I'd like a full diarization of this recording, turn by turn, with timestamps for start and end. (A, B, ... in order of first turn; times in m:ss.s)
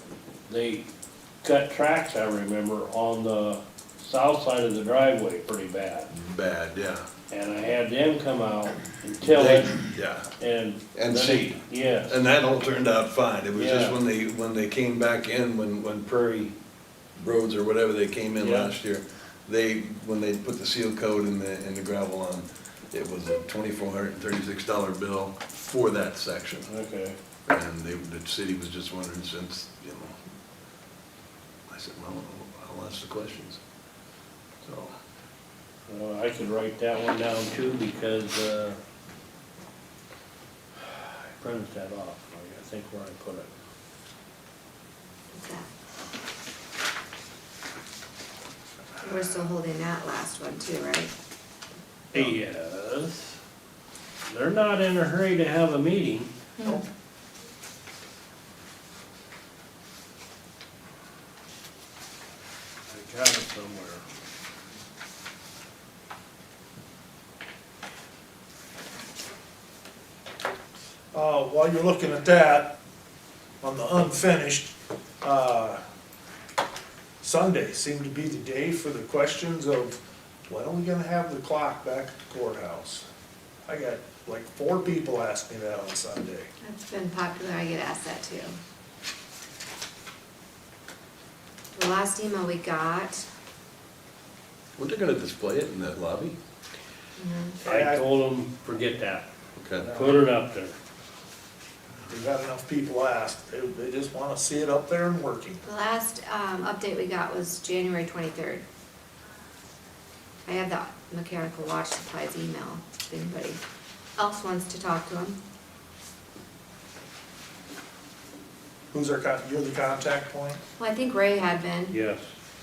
0:00.5-0:00.8 A
0:01.4-0:06.1 A
0:06.1-0:07.1 B
0:07.3-0:09.8 A
0:09.3-0:10.3 B
0:10.4-0:12.2 A
0:11.0-0:16.5 B
0:13.5-0:14.0 A
0:17.2-0:26.7 B
0:18.4-0:18.7 A
0:26.7-0:27.2 A
0:27.5-0:30.2 B
0:31.7-0:33.6 B
0:34.6-0:35.0 B
0:35.9-0:38.8 A
0:40.9-0:43.6 A
0:45.3-0:45.7 C
0:49.0-0:51.1 C
0:52.1-0:53.4 A
0:54.3-0:56.3 A
1:02.9-1:04.0 A
1:11.1-1:12.7 D
1:13.6-1:15.8 D
1:17.2-1:23.0 D
1:23.7-1:26.5 D
1:26.6-1:28.6 C
1:31.8-1:33.2 C
1:34.8-1:36.4 B
1:37.2-1:37.6 C
1:37.6-1:38.0 D
1:37.6-1:40.8 A
1:39.6-1:39.9 B
1:42.1-1:45.6 D
1:45.6-1:48.6 C
1:50.5-1:53.6 C
1:54.2-1:55.4 C
1:58.9-2:00.6 D
2:00.8-2:02.0 C
2:01.9-2:02.2 A